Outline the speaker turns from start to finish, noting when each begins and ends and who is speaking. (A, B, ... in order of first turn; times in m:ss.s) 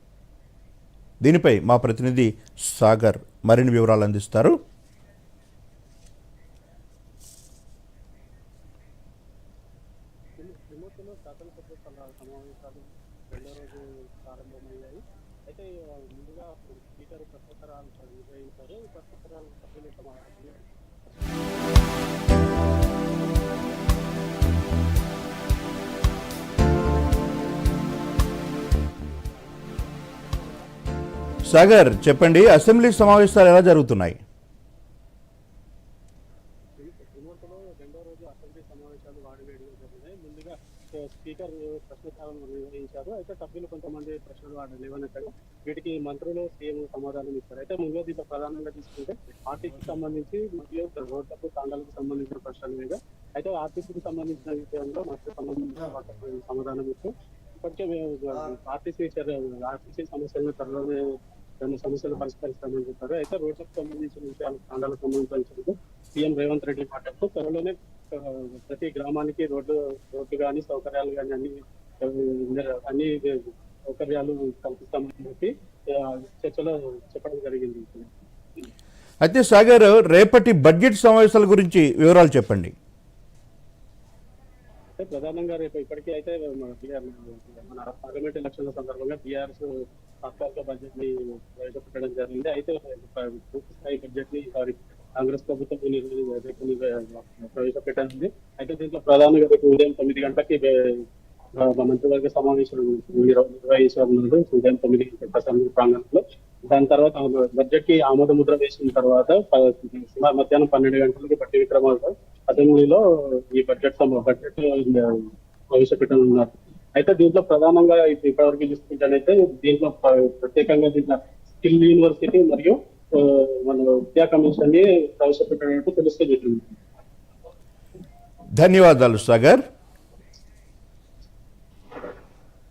0:01.2-0:04.6 A
0:10.4-0:21.5 B
0:26.6-0:30.7 B
0:31.5-0:34.2 A
0:36.8-1:01.0 B
1:01.6-1:18.1 B
1:19.2-1:22.7 A
1:25.0-1:29.7 B
1:30.2-1:41.0 B
1:41.6-2:06.7 B
2:08.6-2:09.6 A